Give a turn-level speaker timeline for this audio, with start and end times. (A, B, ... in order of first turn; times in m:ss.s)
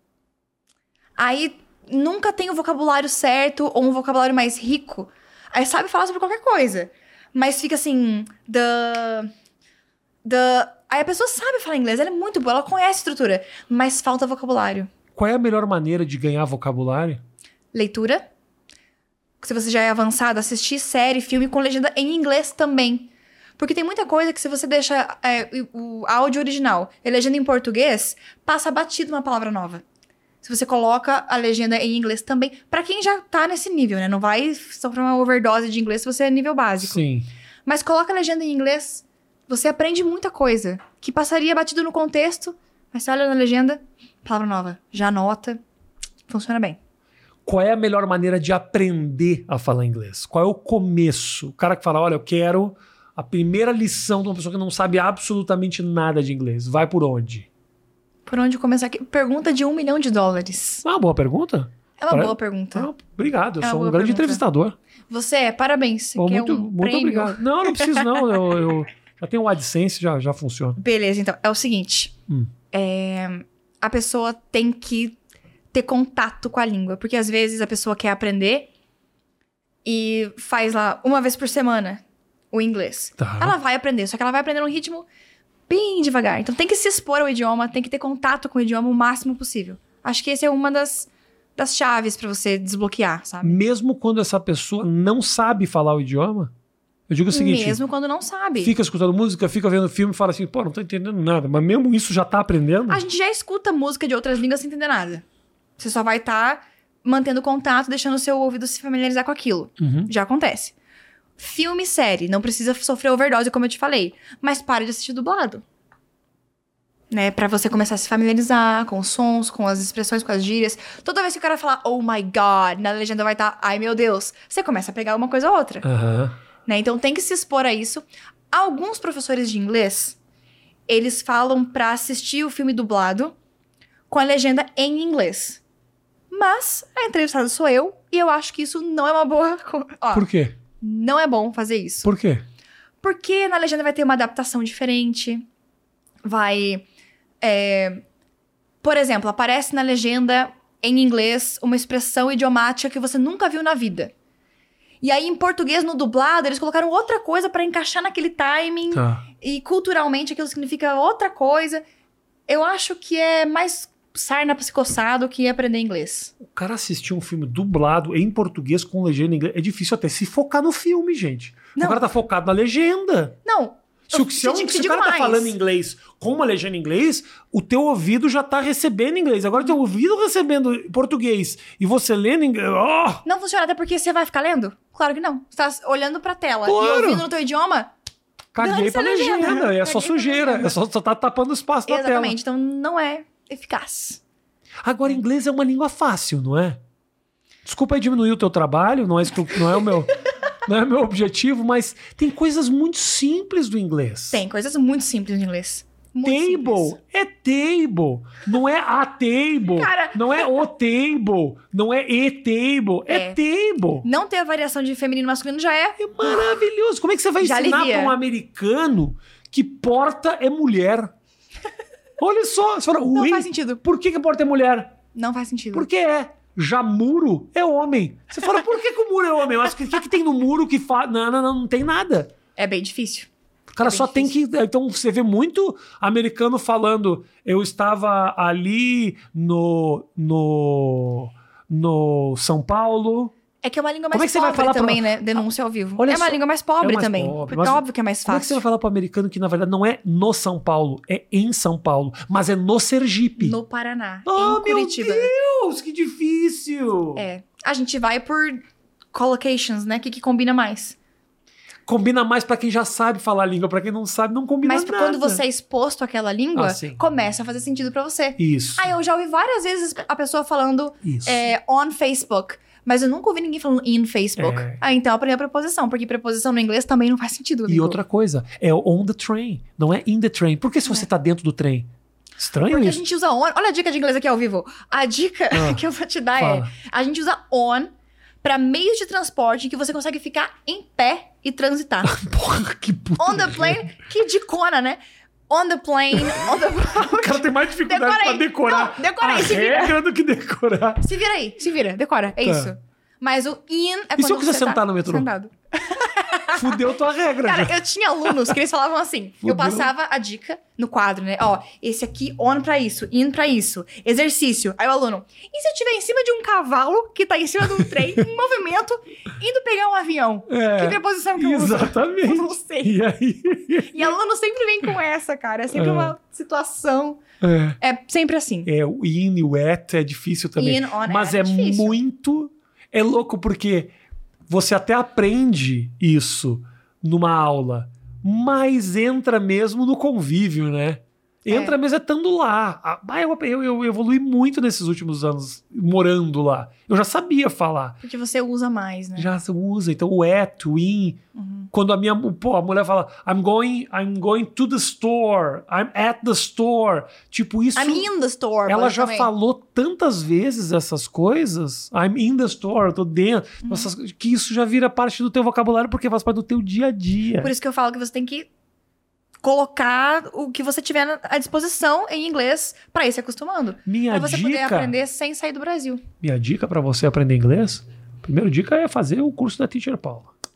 0:01.2-0:09.3 A
0:10.2-0:14.9 A
0:15.2-0:17.2 B
0:17.7-0:18.3 A
0:19.4-0:29.8 A
0:30.4-0:37.0 A
0:36.8-0:37.3 B
0:37.7-0:45.6 A
0:46.3-0:46.8 A
0:47.4-0:57.5 B
0:58.3-1:00.8 A
1:00.8-1:04.8 B
1:02.0-1:02.9 A
1:03.6-1:04.4 A
1:05.1-1:08.1 A
1:06.2-1:10.8 B
1:10.8-1:12.2 A
1:12.7-1:15.2 A
1:15.7-1:18.7 A
1:19.8-1:25.1 A
1:23.2-1:23.6 B
1:25.7-1:33.6 A
1:33.4-1:36.5 B
1:37.1-1:37.8 B
1:37.3-1:38.7 A
1:38.6-1:43.0 B
1:42.9-1:45.2 A
1:45.8-1:50.8 A
1:49.8-1:50.1 B
1:51.4-1:55.6 A
1:57.1-2:05.9 A
2:05.8-2:06.4 B
2:06.7-2:10.2 A
2:10.9-2:13.4 A
2:14.1-2:15.6 A
2:16.3-2:20.3 A
2:20.1-2:20.6 B
2:20.8-2:22.1 A
2:22.0-2:22.4 B
2:23.0-2:25.5 A
2:26.2-2:26.8 A
2:27.4-2:28.0 A
2:28.8-2:34.1 A
2:35.0-2:41.8 A
2:38.9-2:39.2 B
2:42.5-2:46.3 A
2:46.4-2:53.4 B
2:51.8-2:52.0 A
2:53.4-2:55.6 A
2:54.1-3:03.2 B
3:03.2-3:07.9 A
3:06.6-3:07.3 B
3:08.5-3:12.4 B
3:08.6-3:10.8 A
3:11.9-3:14.2 A
3:14.8-3:16.8 B
3:17.6-3:20.1 B
3:20.7-3:24.4 B
3:24.3-3:27.0 A
3:26.2-3:34.1 B
3:29.7-3:30.5 A
3:33.1-3:33.4 A
3:34.0-3:36.5 A
3:36.0-3:41.1 B
3:37.4-3:38.2 A
3:42.2-3:45.0 B
3:43.1-3:43.8 A
3:45.2-3:45.9 A
3:45.7-3:52.3 B
3:52.6-3:53.3 A
3:53.7-4:03.3 B
3:53.8-3:54.3 A
4:03.6-4:08.6 A
4:04.1-4:05.2 B
4:06.0-4:13.6 B
4:13.4-4:15.3 A
4:14.3-4:17.2 B
4:17.2-4:18.6 A
4:19.1-4:21.0 A
4:21.9-4:25.4 B
4:24.6-4:38.0 A
4:26.5-4:27.0 B
4:28.4-4:28.9 B
4:31.0-4:31.5 B
4:34.4-4:34.8 B
4:37.7-4:43.0 B
4:42.7-4:47.9 A
4:45.5-4:45.8 B
4:46.4-4:46.7 B
4:48.4-4:52.2 A
4:52.0-4:53.9 B
4:53.2-5:00.0 A
4:56.3-5:01.0 B
5:01.0-5:06.8 A
5:02.4-5:02.7 B
5:04.2-5:05.3 B
5:06.5-5:08.6 B
5:07.4-5:23.0 A
5:09.4-5:09.9 B
5:20.5-5:24.1 B
5:23.9-5:27.2 A
5:25.7-5:26.2 B
5:27.4-5:27.8 B
5:27.8-5:28.7 A
5:28.7-5:33.9 B
5:30.6-5:32.0 A
5:34.5-5:48.0 B
5:41.5-5:41.8 A
5:48.0-5:49.3 A
5:49.2-5:51.2 B
5:51.4-5:51.7 A
5:51.7-5:58.1 B
5:57.8-5:59.3 A
5:58.7-6:07.5 B
6:03.6-6:03.9 A
6:07.4-6:08.5 A
6:09.4-6:16.0 A
6:13.9-6:15.0 B
6:16.2-6:20.3 B